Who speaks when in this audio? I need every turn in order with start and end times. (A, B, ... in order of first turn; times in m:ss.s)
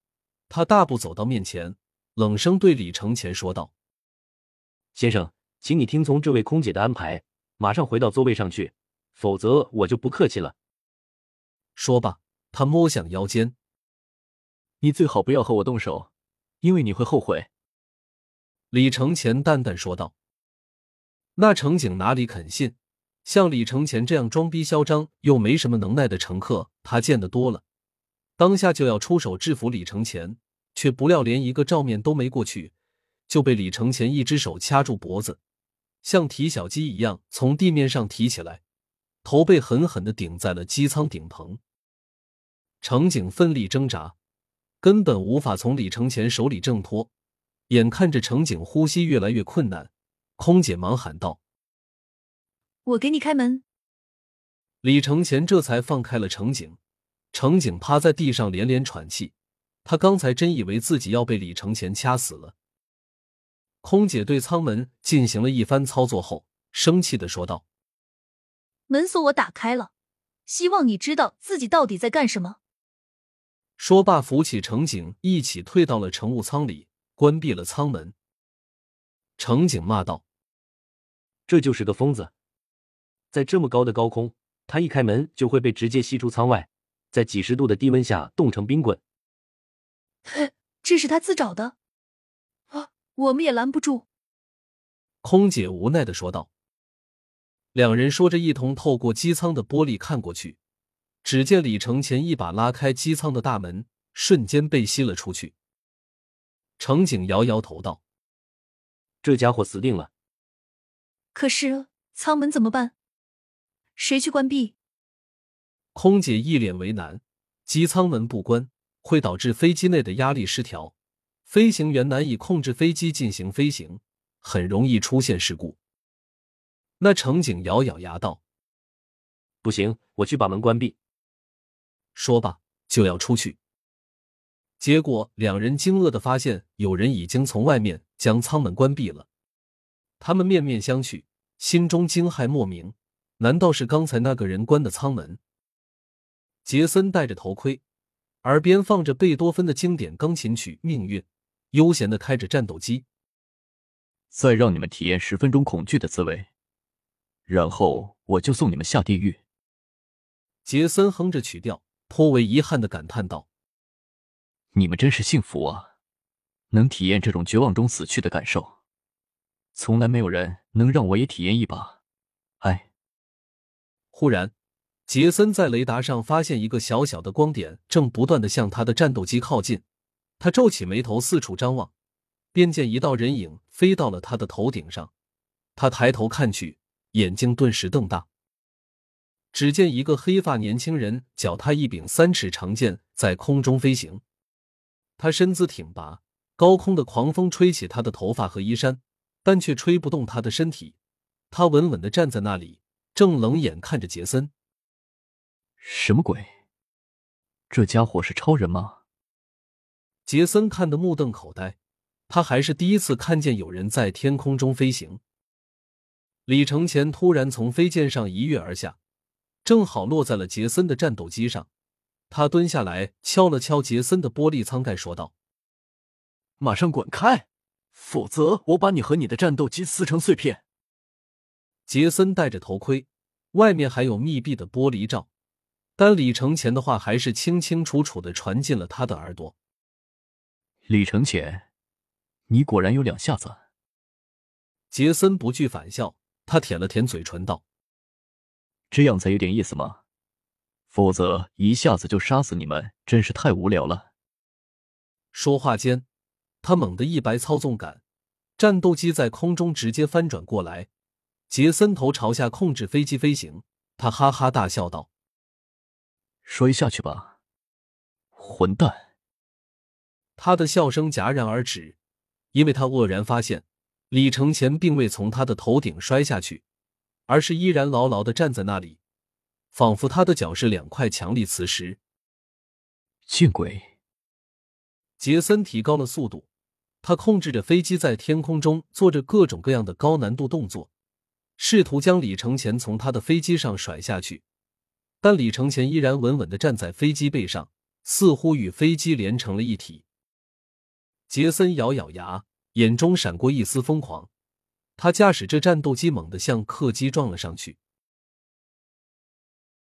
0:00.5-0:03.7 A
0:04.9-0:10.5 B
0:11.8-0:13.5 A
0:14.8-0:16.1 C
0:16.6-0:17.5 C
0:18.7-0:20.1 A
0:21.4-0:27.6 A
0:28.4-0:32.7 A
0:33.3-0:35.4 A
0:36.0-0:38.6 A
0:39.2-0:41.6 A
0:42.8-0:44.1 A
0:44.8-0:47.1 A
0:47.7-0:51.4 A
0:52.8-0:53.6 D
0:54.8-0:56.8 A
0:57.3-0:59.3 A
0:59.8-1:02.5 A
1:03.8-1:07.6 A
1:08.9-1:09.9 D
1:10.5-1:12.6 D
1:13.8-1:18.1 A
1:19.4-1:20.2 A
1:21.5-1:22.3 B
1:23.3-1:29.0 B
1:30.2-1:31.7 D
1:32.7-1:34.0 D
1:35.2-1:36.5 A
1:37.7-1:40.6 A
1:41.2-1:45.5 A
1:46.8-1:48.0 A
1:49.2-1:50.1 B
1:51.3-1:52.9 D
1:54.0-1:54.7 D
1:55.9-2:00.9 A
2:01.4-2:05.8 A
2:07.0-2:08.4 A
2:09.6-2:11.0 B
2:12.1-2:13.6 A
2:14.8-2:19.3 A
2:20.2-2:25.4 A
2:26.6-2:27.8 A
2:28.4-2:33.0 A
2:34.3-2:36.5 C
2:37.5-2:39.4 C
2:40.6-2:43.4 A
2:44.7-2:45.9 C
2:46.7-2:48.7 C
2:49.8-2:52.0 C
2:52.6-2:52.8 C
2:54.1-2:54.5 A
2:55.1-2:59.8 A
3:00.4-3:01.9 A
3:02.5-3:05.1 A
3:05.8-3:08.2 A
3:09.5-3:14.2 A
3:15.2-3:21.0 A
3:21.5-3:24.5 A
3:25.8-3:26.5 C
3:27.7-3:29.0 C
3:30.2-3:31.8 A
3:32.3-3:35.2 A
3:36.4-3:39.0 A
3:39.6-3:41.7 A
3:42.3-3:45.3 A
3:46.6-3:50.6 C
3:51.9-3:55.3 A
3:56.0-3:59.5 A
4:00.9-4:01.6 C
4:02.5-4:03.6 C
4:04.9-4:07.6 A
4:08.9-4:10.0 C
4:10.9-4:14.1 C
4:15.3-4:16.0 A
4:16.6-4:18.0 A
4:18.6-4:20.9 A
4:21.5-4:25.1 A
4:26.4-4:27.3 C
4:28.4-4:29.0 C
4:30.4-4:32.0 A
4:32.5-4:36.6 A
4:37.3-4:39.0 A
4:39.7-4:42.0 A
4:43.3-4:43.9 C
4:45.2-4:46.5 A
4:47.0-4:50.9 A
4:51.6-4:54.4 A
4:55.2-5:00.0 A
5:01.3-5:04.3 A
5:05.0-5:07.8 A